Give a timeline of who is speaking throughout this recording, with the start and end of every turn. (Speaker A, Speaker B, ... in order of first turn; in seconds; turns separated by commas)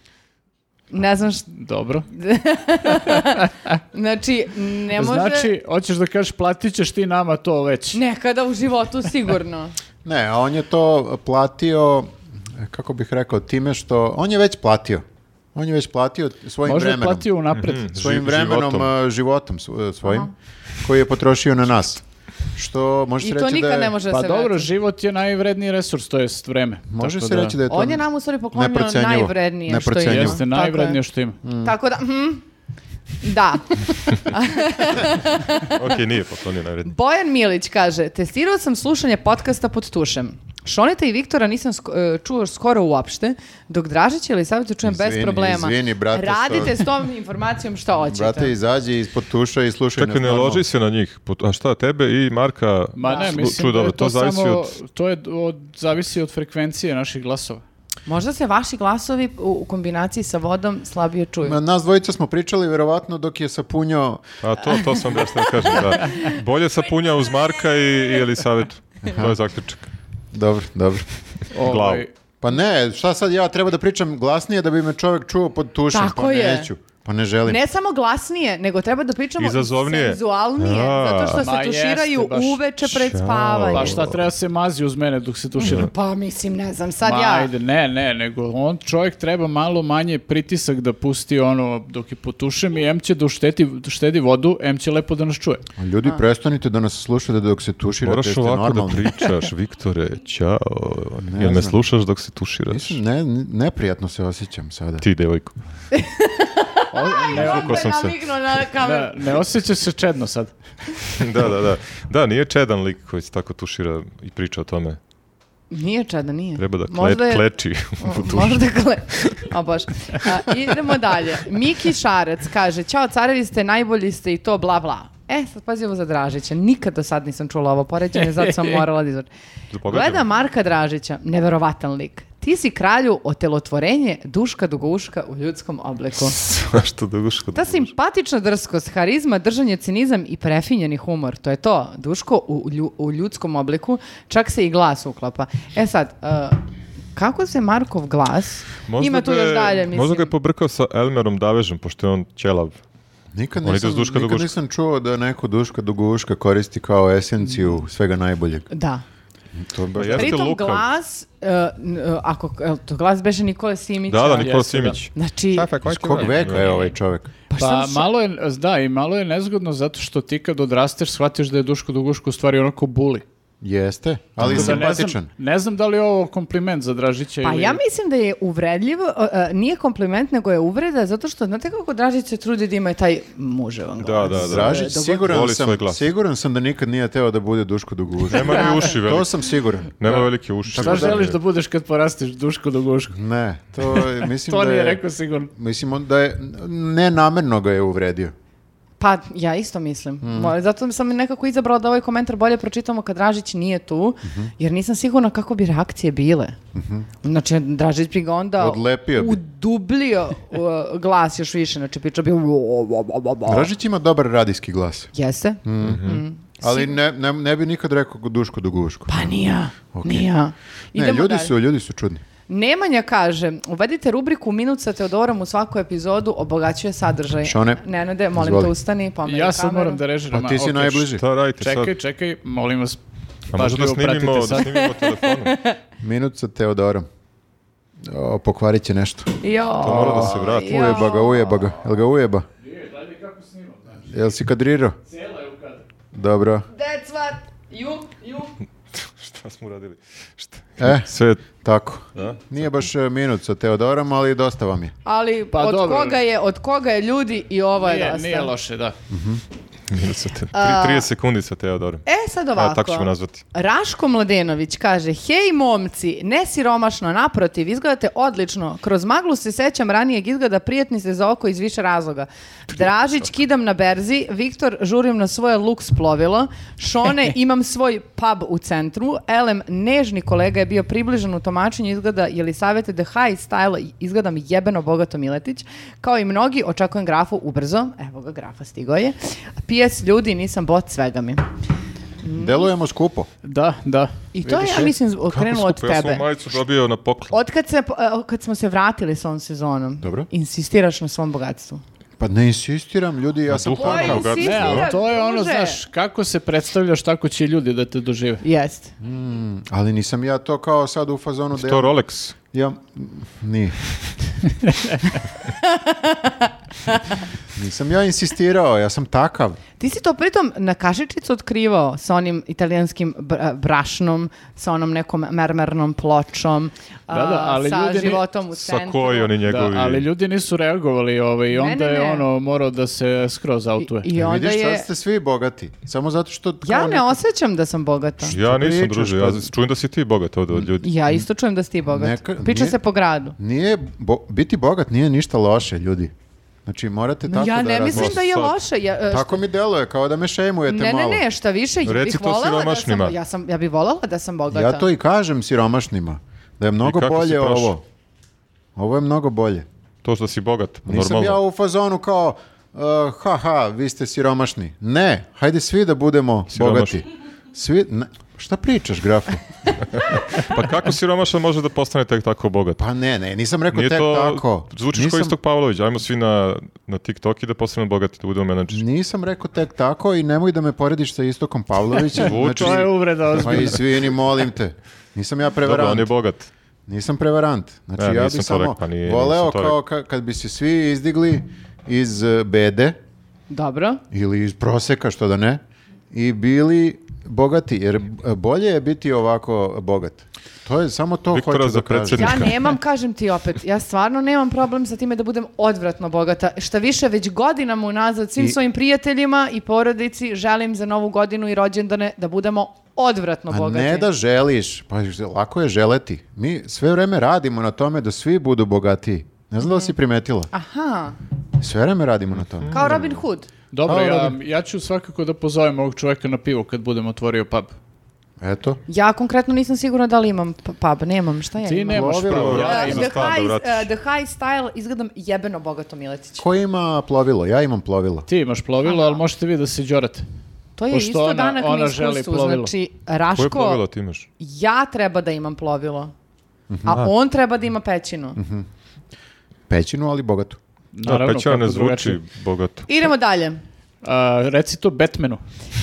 Speaker A: 0.9-1.5, Speaker B: 1.5-2.1, Speaker A: 2.1-5.5, Speaker B: 5.0-8.0, Speaker A: 7.9-9.7, Speaker C: 10.0-17.2, Speaker B: 16.6-17.9, Speaker D: 17.5-18.9, Speaker C: 17.9-22.0, Speaker A: 20.0-20.3, Speaker C: 22.5-23.9, Speaker A: 23.2-24.7, Speaker B: 24.1-27.6, Speaker C: 26.9-30.4, Speaker A: 27.7-31.0, Speaker B: 30.1-31.4, Speaker C: 31.4-31.7, Speaker A: 31.6-32.4, Speaker A: 33.2-35.9, Speaker D: 35.6-36.9, Speaker A: 36.8-48.5, Speaker C: 44.8-46.9, Speaker C: 48.1-50.6, Speaker D: 50.0-54.7, Speaker B: 53.0-57.6, Speaker A: 53.1-53.4, Speaker A: 58.0-61.6, Speaker C: 61.4-64.2, Speaker D: 64.4-69.9, Speaker A: 65.1-66.3, Speaker C: 69.0-69.4, Speaker C: 70.3-71.1, Speaker B: 71.5-72.1, Speaker D: 71.6-72.0, Speaker C: 72.4-77.6, Speaker A: 75.9-76.7, Speaker A: 77.5-84.0, Speaker D: 79.4-81.5, Speaker B: 81.4-82.6, Speaker D: 82.8-84.2, Speaker B: 83.7-85.9, Speaker A: 85.6-87.5, Speaker B: 87.0-95.6, Speaker C: 95.8-99.1, Speaker D: 98.0-103.0, Speaker C: 101.2-101.8, Speaker C: 102.7-105.0, Speaker D: 105.0-105.5, Speaker A: 105.9-109.4, Speaker B: 106.9-107.9, Speaker D: 107.3-108.2, Speaker B: 108.8-110.5, Speaker D: 111.1-115.0, Speaker A: 115.7-117.4, Speaker D: 116.6-119.5, Speaker A: 118.0-129.3, Speaker D: 129.7-130.2, Speaker A: 129.9-136.4, Speaker D: 136.3-137.9, Speaker A: 137.5-146.6, Speaker A: 147.1-150.3, Speaker D: 148.8-152.8, Speaker C: 153.3-158.7, Speaker D: 153.6-154.5, Speaker A: 158.7-159.0, Speaker C: 159.6-160.4, Speaker D: 159.9-160.8, Speaker A: 160.1-166.9, Speaker D: 164.1-166.9, Speaker B: 164.4-165.0, Speaker C: 165.8-167.3, Speaker A: 167.5-168.1, Speaker B: 167.5-173.2, Speaker C: 173.6-175.3, Speaker B: 174.4-177.8, Speaker D: 174.4-174.8, Speaker A: 177.4-185.4, Speaker D: 184.0-186.0, Speaker C: 184.3-189.9, Speaker D: 188.3-191.4, Speaker A: 188.3-189.0, Speaker B: 190.0-193.2, Speaker C: 190.7-191.2, Speaker C: 193.1-195.0, Speaker B: 193.9-195.5, Speaker C: 195.5-198.3, Speaker A: 199.0-206.6, Speaker C: 200.2-200.5, Speaker C: 204.2-204.5, Speaker C: 206.7-207.1, Speaker A: 207.2-213.7, Speaker C: 208.6-209.4, Speaker C: 213.4-215.1, Speaker A: 215.1-216.9, Speaker C: 215.6-216.0, Speaker D: 215.8-216.2, Speaker C: 216.6-219.3, Speaker A: 219.1-221.5, Speaker C: 219.9-220.3, Speaker C: 220.9-222.2, Speaker A: 222.5-230.0, Speaker C: 227.4-227.8, Speaker C: 228.3-228.7, Speaker B: 229.2-233.0, Speaker C: 230.3-231.2, Speaker D: 231.2-231.9, Speaker B: 233.5-234.8, Speaker D: 233.5-235.6, Speaker A: 234.7-235.8, Speaker C: 236.0-237.1, Speaker C: 238.0-239.3, Speaker A: 239.4-241.6, Speaker D: 239.8-241.1, Speaker C: 240.0-242.4, Speaker B: 242.6-244.1, Speaker C: 244.1-244.9, Speaker B: 245.1-245.8, Speaker C: 246.1-246.7, Speaker A: 246.7-248.5, Speaker D: 248.9-251.4, Speaker C: 250.8-254.9, Speaker D: 252.1-252.5, Speaker A: 255.0-258.5, Speaker B: 255.5-256.2, Speaker B: 257.8-258.9, Speaker C: 259.1-259.4, Speaker D: 259.9-263.4, Speaker A: 260.5-261.1, Speaker A: 262.1-291.4, Speaker A: 292.2-292.7, Speaker C: 292.3-293.3, Speaker B: 293.4-294.9, Speaker A: 294.3-296.2, Speaker D: 295.3-297.3, Speaker A: 297.3-301.8, Speaker C: 300.0-300.3, Speaker C: 302.2-304.6, Speaker D: 303.5-304.9, Speaker A: 303.6-305.8, Speaker B: 304.4-308.4, Speaker A: 308.4-308.9, Speaker C: 309.0-311.9, Speaker D: 311.6-312.3, Speaker C: 312.5-313.8, Speaker B: 314.6-315.0, Speaker A: 315.5-317.2, Speaker C: 317.5-319.6, Speaker A: 319.8-329.3, Speaker B: 327.1-328.2, Speaker D: 328.5-330.1, Speaker B: 329.4-334.1, Speaker A: 331.5-332.2, Speaker A: 333.8-334.9, Speaker C: 334.1-337.2, Speaker A: 336.6-338.4, Speaker D: 338.3-340.9, Speaker C: 338.3-339.5, Speaker C: 340.5-341.2, Speaker A: 340.8-343.4, Speaker C: 341.9-342.8, Speaker C: 343.4-346.1, Speaker C: 346.6-348.2, Speaker A: 347.3-349.4, Speaker D: 347.9-348.6, Speaker C: 349.1-351.2, Speaker A: 350.7-354.9, Speaker D: 351.8-353.2, Speaker C: 354.5-357.8, Speaker D: 356.8-357.7, Speaker C: 358.8-359.6, Speaker D: 360.0-361.4, Speaker C: 360.9-369.4, Speaker D: 366.5-367.0, Speaker D: 369.9-372.8, Speaker C: 372.8-375.3, Speaker D: 373.7-378.8, Speaker C: 378.7-386.1, Speaker D: 382.1-383.7, Speaker B: 382.2-383.8, Speaker D: 385.6-386.5, Speaker C: 386.9-392.9, Speaker D: 388.0-389.8, Speaker A: 393.5-394.0, Speaker C: 394.1-402.5, Speaker D: 401.3-402.6, Speaker A: 402.1-414.1, Speaker C: 413.5-420.5, Speaker A: 419.6-419.9, Speaker A: 420.5-421.2, Speaker C: 421.6-423.2, Speaker D: 422.5-423.1, Speaker A: 422.7-423.5, Speaker B: 423.7-427.7, Speaker C: 423.8-424.4, Speaker C: 428.4-428.8, Speaker A: 428.9-436.4, Speaker B: 431.6-433.3, Speaker C: 431.9-432.9, Speaker D: 432.2-433.9, Speaker C: 436.4-438.3, Speaker B: 438.3-440.2, Speaker A: 438.8-439.2, Speaker A: 440.8-443.8, Speaker B: 440.9-442.7, Speaker D: 443.3-444.3, Speaker A: 444.4-446.1, Speaker C: 446.7-447.0, Speaker A: 446.8-448.4, Speaker D: 446.9-447.1, Speaker C: 448.4-448.6, Speaker C: 449.7-450.6, Speaker B: 450.9-452.2, Speaker D: 451.0-452.9, Speaker A: 452.9-453.6, Speaker B: 454.0-455.4